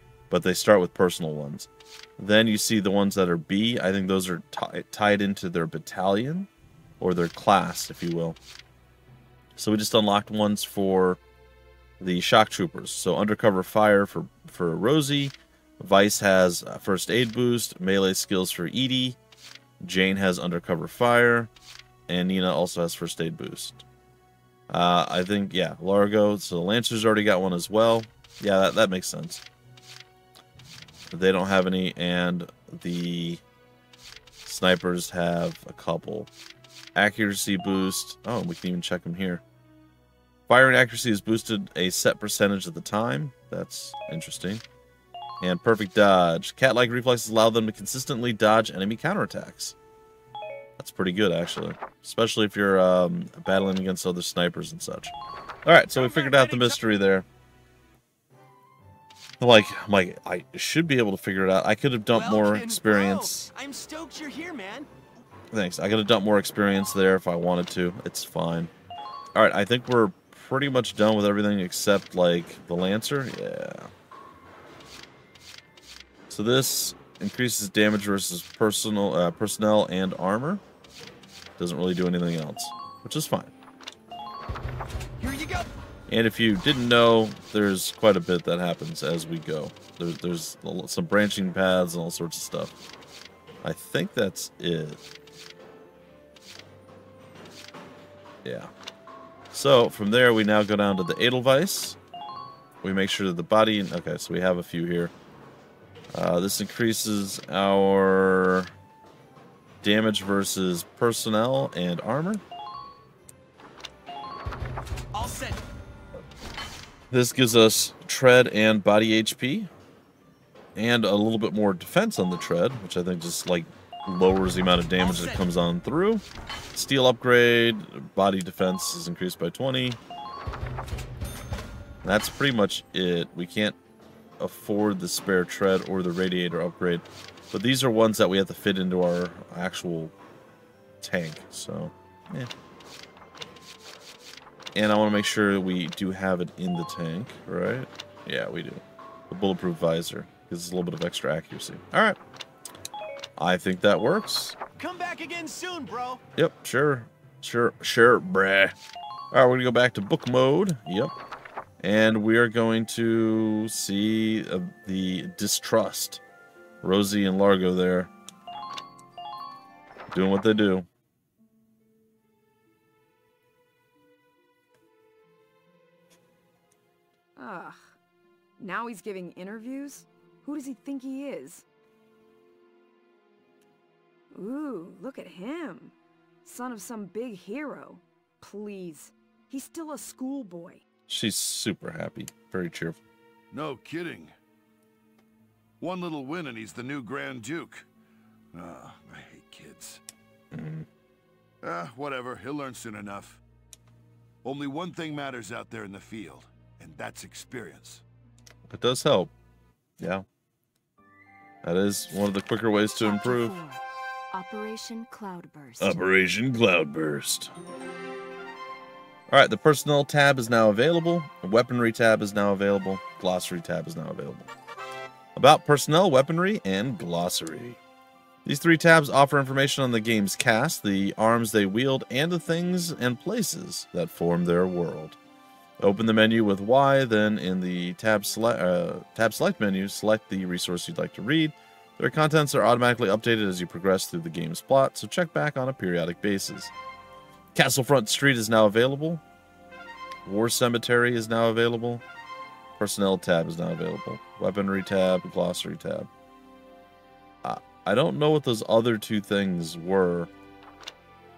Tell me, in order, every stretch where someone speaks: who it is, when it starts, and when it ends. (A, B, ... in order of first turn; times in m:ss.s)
0:00.3-0:06.5 A
0:07.0-0:08.4 A
0:09.6-0:11.2 A
0:12.0-0:19.2 A
0:19.8-0:21.5 A
0:22.1-0:23.8 A
0:24.7-0:29.4 A
0:31.1-0:33.4 A
0:34.4-0:36.3 A
0:36.9-0:39.4 A
0:40.5-0:44.6 A
0:45.4-0:49.8 A
0:50.8-0:55.1 A
0:55.6-0:57.2 A
0:55.9-0:56.8 B
0:59.4-1:03.5 A
1:02.1-1:04.9 B
1:05.5-1:08.7 A
1:09.3-1:13.9 A
1:16.3-1:20.6 A
1:21.6-1:23.5 A
1:25.2-1:25.7 B
1:26.1-1:32.8 A
1:33.6-1:35.0 A
1:38.4-1:38.7 A
1:39.5-1:42.0 A
1:42.8-1:45.1 A
1:46.1-1:48.7 A
1:49.8-1:52.4 A
1:55.1-1:55.6 B
1:57.1-1:59.7 A
2:00.7-2:06.2 A
2:05.0-2:05.4 B
2:06.7-2:10.0 A
2:12.0-2:13.8 A
2:14.4-2:20.1 A
2:21.0-2:22.5 A
2:24.7-2:32.2 A
2:33.4-2:34.6 A
2:34.8-2:36.2 B
2:36.4-2:38.7 A
2:39.3-2:41.1 A
2:41.8-2:46.2 A
2:46.8-2:48.1 A
2:50.1-2:50.9 A
2:57.4-2:57.9 C
2:58.6-3:01.6 C
3:04.3-3:10.8 C
3:11.1-3:13.0 A
3:13.5-3:14.3 D
3:15.8-3:17.9 D
3:18.5-3:20.0 D
3:20.5-3:20.9 A
3:21.6-3:23.4 D
3:24.4-3:28.0 D
3:28.7-3:29.3 A
3:30.0-3:30.2 A
3:31.6-3:33.6 A
3:33.0-3:36.0 E
3:35.8-3:37.5 A
3:39.3-3:44.5 A
3:45.4-3:47.8 A
3:48.4-3:55.2 A
3:55.8-4:06.7 A
4:07.5-4:09.2 A
4:10.2-4:12.0 A
4:12.8-4:16.1 A
4:17.4-4:20.3 A